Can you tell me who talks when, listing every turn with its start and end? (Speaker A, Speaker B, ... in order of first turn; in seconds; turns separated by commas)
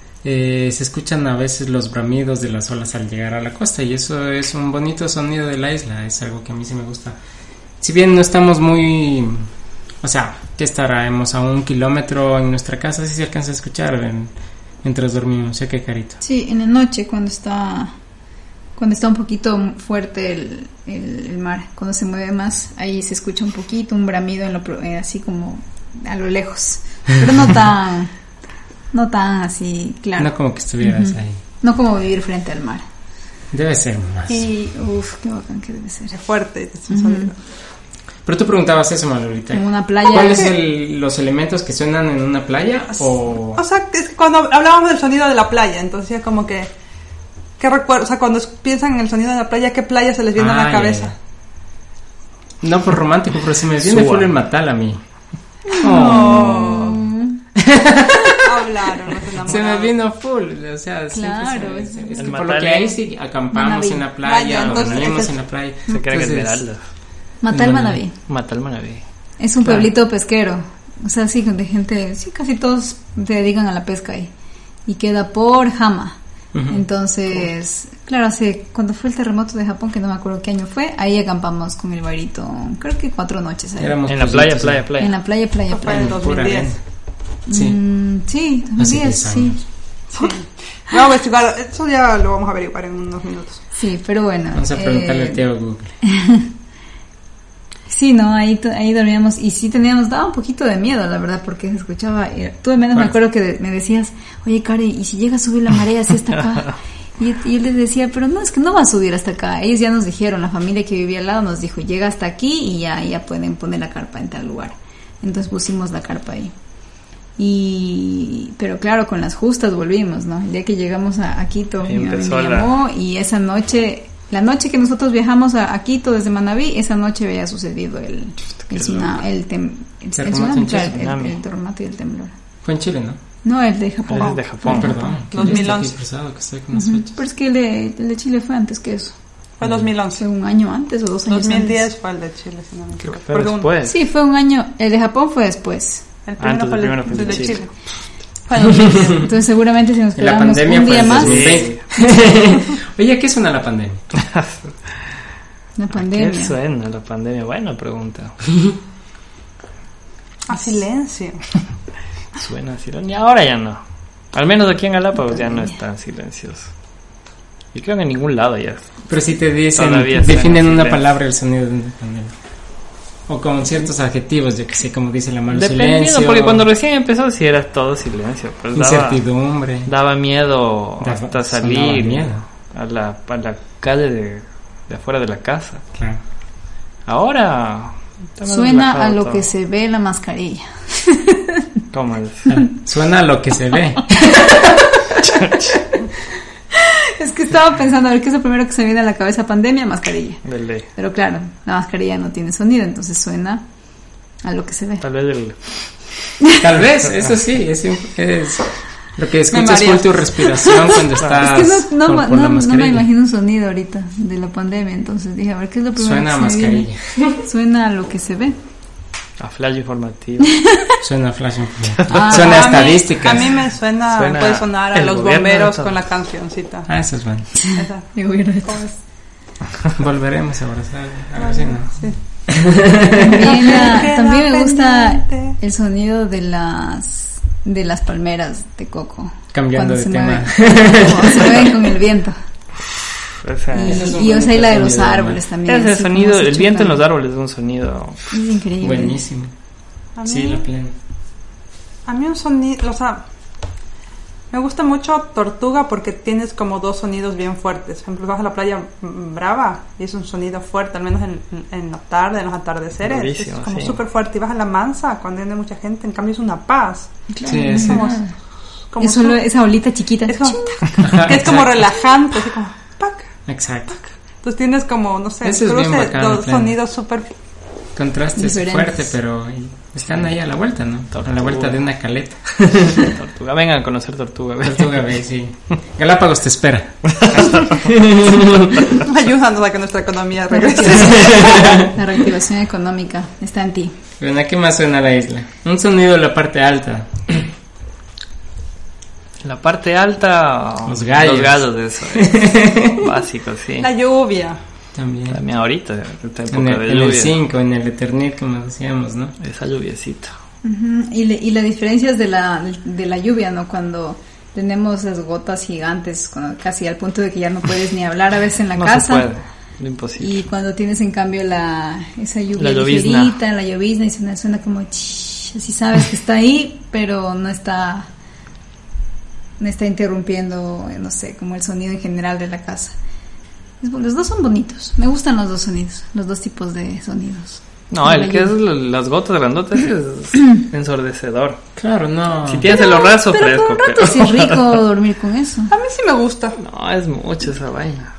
Speaker A: 0.2-7.2, Speaker A: 7.8-9.5, Speaker A: 10.0-14.3, Speaker A: 14.8-16.2, Speaker B: 16.2-17.9, Speaker B: 18.8-28.1, Speaker B: 28.9-32.9, Speaker A: 30.2-31.4, Speaker A: 33.5-34.5, Speaker B: 34.5-36.1, Speaker C: 36.1-37.4, Speaker B: 36.9-37.3, Speaker A: 38.2-43.6, Speaker B: 39.5-40.5, Speaker C: 43.5-46.7, Speaker C: 47.6-51.1, Speaker A: 50.4-51.1, Speaker A: 52.6-55.0, Speaker D: 53.8-54.3, Speaker B: 55.7-57.4, Speaker A: 55.7-56.9, Speaker C: 55.8-57.0, Speaker A: 57.6-58.5, Speaker C: 58.2-59.9, Speaker A: 59.4-66.6, Speaker B: 61.1-62.4, Speaker D: 62.2-63.0, Speaker B: 63.5-64.2, Speaker C: 64.2-65.4, Speaker D: 64.5-65.0, Speaker D: 65.9-66.8, Speaker B: 67.4-68.2, Speaker A: 67.5-68.0, Speaker D: 68.2-69.0, Speaker B: 69.4-74.3, Speaker B: 74.9-76.2, Speaker A: 76.5-76.8, Speaker B: 76.7-84.0, Speaker A: 83.8-84.9, Speaker D: 84.1-85.2, Speaker B: 85.0-86.2, Speaker C: 85.7-86.8, Speaker A: 85.9-86.8, Speaker B: 87.5-89.6, Speaker A: 87.5-87.8, Speaker A: 88.8-89.6, Speaker C: 90.1-93.6, Speaker B: 93.8-95.5, Speaker A: 94.5-96.0, Speaker B: 96.0-96.5, Speaker B: 97.9-116.5, Speaker B: 117.4-132.3, Speaker D: 121.8-122.7, Speaker D: 128.7-129.2, Speaker A: 130.2-130.9, Speaker D: 130.7-131.4, Speaker A: 132.6-133.2, Speaker B: 133.4-135.6, Speaker D: 134.1-134.9, Speaker A: 134.7-137.1, Speaker C: 135.3-136.0, Speaker B: 136.7-139.1, Speaker C: 139.6-140.2, Speaker B: 140.2-141.9, Speaker C: 141.3-143.7, Speaker D: 143.1-143.9, Speaker B: 143.8-146.1, Speaker C: 146.3-147.7, Speaker D: 146.4-147.7, Speaker C: 148.4-149.3, Speaker A: 148.7-149.2, Speaker B: 149.1-151.7, Speaker A: 150.2-154.1, Speaker D: 150.9-151.8, Speaker D: 154.2-154.7, Speaker B: 155.8-156.6, Speaker D: 156.0-158.4, Speaker C: 160.5-161.4, Speaker D: 162.4-163.8, Speaker D: 164.3-166.7, Speaker B: 165.3-165.7, Speaker D: 167.7-169.0, Speaker A: 169.1-172.3, Speaker D: 169.8-171.0, Speaker A: 173.3-176.7, Speaker D: 175.5-179.2, Speaker A: 178.8-179.9, Speaker D: 179.9-185.9, Speaker A: 181.0-182.4, Speaker D: 187.1-189.5, Speaker B: 188.5-191.7, Speaker D: 191.9-192.5, Speaker A: 192.5-195.3, Speaker D: 195.3-195.7, Speaker B: 196.7-200.4, Speaker D: 200.4-200.9, Speaker B: 200.9-203.7, Speaker B: 204.4-205.1, Speaker D: 205.0-205.6, Speaker A: 206.6-213.1, Speaker C: 209.5-211.0, Speaker B: 211.4-218.6, Speaker A: 216.0-217.4, Speaker D: 219.4-220.5, Speaker B: 220.5-221.0, Speaker A: 221.0-223.7, Speaker B: 222.1-223.0, Speaker C: 222.4-226.9, Speaker D: 224.1-226.0, Speaker A: 226.9-227.5, Speaker B: 227.6-228.8, Speaker C: 227.7-229.0, Speaker A: 230.0-233.5, Speaker C: 231.4-232.2, Speaker B: 233.1-242.4, Speaker C: 233.4-235.6, Speaker A: 239.5-241.9, Speaker D: 243.4-244.1, Speaker B: 243.7-247.1, Speaker A: 243.8-245.4, Speaker D: 245.7-248.3, Speaker B: 248.3-249.2, Speaker A: 248.8-249.5, Speaker C: 250.2-250.6, Speaker A: 250.3-250.9, Speaker C: 252.1-253.2, Speaker C: 254.5-268.2, Speaker D: 263.0-264.0, Speaker B: 267.3-268.3, Speaker A: 267.4-268.1, Speaker C: 268.9-269.4, Speaker B: 269.0-271.3, Speaker C: 270.3-273.3, Speaker A: 271.0-271.9, Speaker A: 273.5-274.0, Speaker C: 273.9-277.3, Speaker A: 275.4-276.8, Speaker A: 277.9-283.1, Speaker B: 278.4-279.1, Speaker D: 281.1-281.8, Speaker D: 283.0-285.1, Speaker A: 284.7-288.9, Speaker D: 287.1-287.8, Speaker C: 289.0-291.8, Speaker B: 290.5-293.9, Speaker A: 291.2-291.9, Speaker A: 294.2-297.5, Speaker D: 299.4-303.9, Speaker A: 300.9-303.1, Speaker C: 303.8-304.6, Speaker A: 304.9-305.4, Speaker D: 305.3-307.4, Speaker A: 306.5-309.4, Speaker D: 309.4-310.3, Speaker B: 310.6-319.3, Speaker D: 318.8-320.4, Speaker B: 320.2-328.1, Speaker D: 322.6-323.4, Speaker B: 329.6-332.9, Speaker B: 333.8-338.5, Speaker D: 337.9-341.6, Speaker A: 341.8-342.7, Speaker D: 342.5-344.8, Speaker B: 342.7-345.7, Speaker C: 345.7-346.6, Speaker D: 346.6-348.1